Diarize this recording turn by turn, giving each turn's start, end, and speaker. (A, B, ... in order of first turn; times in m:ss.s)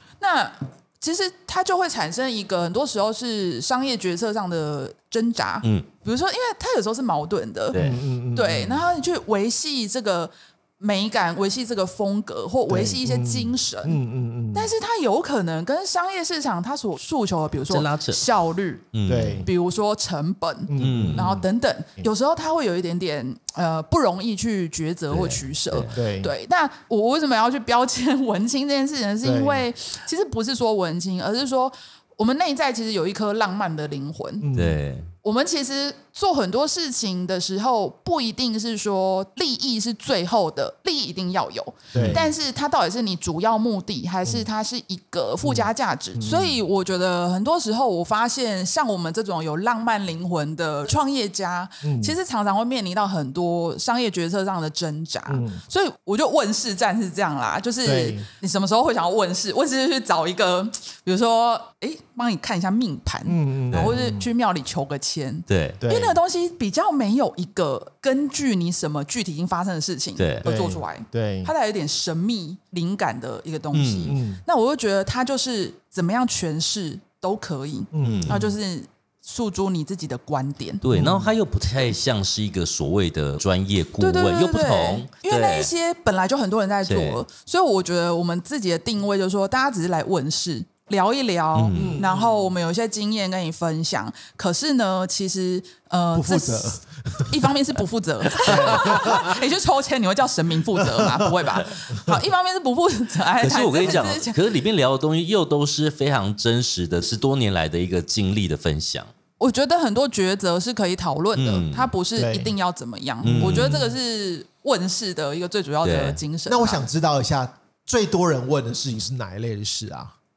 0:00.2-0:07.8 A
0:07.7-0:08.0 B
0:07.8-0:08.9 C
0:08.3-0:14.0 A
0:12.7-0:14.7 C
0:14.5-0:18.9 A
0:17.7-0:18.2 B
0:18.9-0:19.5 B
0:19.1-0:19.5 C
0:19.4-0:34.5 A
0:20.7-0:21.5 C
0:20.8-0:21.3 B
0:25.1-0:25.9 B
0:25.9-0:26.3 C
0:29.2-0:29.7 C
0:34.4-0:34.8 C
0:34.5-0:35.1 B
0:35.2-1:20.8 A
0:41.9-0:42.3 C
0:41.9-0:42.3 B
0:45.4-0:46.6 C
0:51.8-0:52.2 C
0:55.3-0:55.6 C
0:57.8-0:58.3 C
1:03.3-1:04.3 C
1:05.5-1:05.8 B
1:05.8-1:06.2 C
1:10.2-1:10.5 B
1:10.4-1:11.5 C
1:13.7-1:14.2 B
1:14.1-1:14.4 C
1:17.9-1:18.5 C
1:18.0-1:18.5 B
1:20.8-1:25.7 B
1:20.9-1:21.3 C
1:24.0-1:44.4 A
1:26.9-1:27.2 B
1:31.6-1:32.0 B
1:31.8-1:32.6 C
1:36.1-1:37.6 C
1:38.4-1:39.4 C
1:38.4-1:39.2 B
1:40.7-1:42.2 C
1:43.4-1:49.1 B
1:49.4-1:56.8 A
1:51.4-1:51.9 B
1:52.2-1:52.5 C
1:53.2-1:53.8 B
1:53.3-1:54.0 C
1:55.8-1:56.2 B
1:56.5-2:00.2 C